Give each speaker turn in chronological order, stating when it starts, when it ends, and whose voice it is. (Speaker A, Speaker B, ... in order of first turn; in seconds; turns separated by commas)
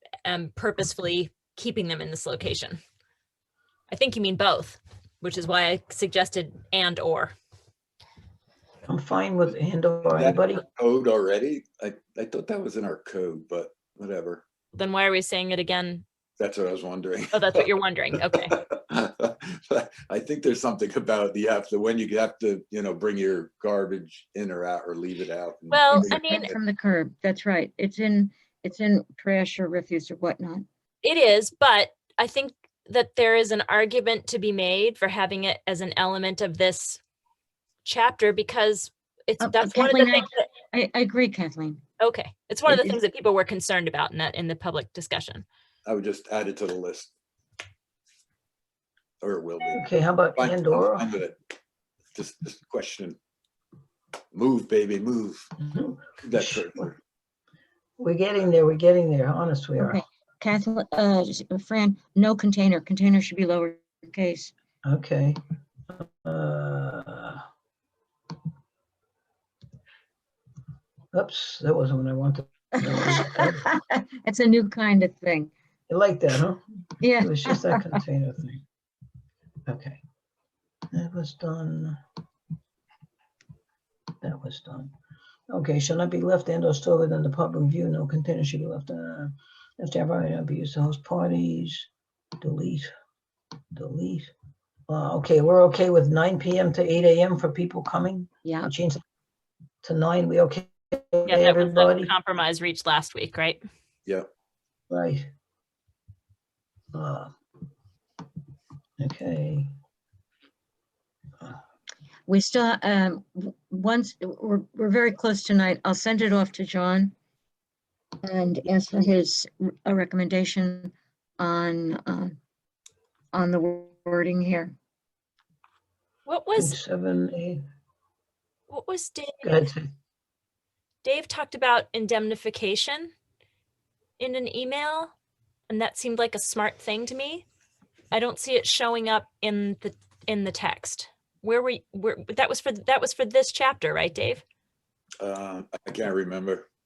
Speaker A: 0.2-2.8, Speaker A: 3.9-7.3, Speaker B: 8.9-10.6, Speaker C: 10.1-14.4, Speaker A: 14.7-16.0, Speaker C: 16.4-17.7, Speaker A: 17.3-18.6, Speaker C: 18.5-26.4, Speaker A: 25.7-26.5, Speaker D: 25.9-30.6, Speaker A: 31.0-37.0, Speaker A: 37.8-40.4, Speaker D: 39.4-41.8, Speaker A: 42.0-45.5, Speaker D: 42.7-42.9, Speaker C: 45.9-47.1, Speaker C: 49.2-49.9, Speaker B: 49.7-51.1, Speaker C: 50.4-51.4, Speaker C: 52.1-53.2, Speaker C: 54.3-55.5, Speaker B: 55.6-56.9, Speaker C: 56.2-57.0, Speaker B: 58.0-60.0, Speaker D: 59.8-64.5, Speaker B: 64.8-65.4, Speaker B: 65.9-67.4, Speaker B: 71.1-73.7, Speaker D: 72.8-75.5, Speaker B: 75.9-76.6, Speaker D: 77.0-78.0, Speaker B: 77.2-78.6, Speaker B: 79.7-80.0, Speaker B: 80.9-82.0, Speaker B: 84.2-84.9, Speaker B: 85.5-91.9, Speaker B: 92.4-92.9, Speaker B: 93.7-94.3, Speaker B: 94.9-99.0, Speaker D: 98.5-98.7, Speaker B: 99.8-102.1, Speaker A: 101.3-103.6, Speaker B: 104.9-105.3, Speaker B: 106.9-107.3, Speaker B: 109.0-109.7, Speaker D: 112.3-117.1, Speaker D: 118.2-122.4, Speaker D: 123.3-124.7, Speaker A: 126.3-126.8, Speaker B: 126.6-127.6, Speaker A: 128.7-129.7, Speaker B: 129.4-129.9, Speaker A: 131.0-133.1, Speaker A: 134.2-135.1, Speaker A: 135.7-137.5, Speaker A: 138.1-144.4, Speaker C: 145.2-146.7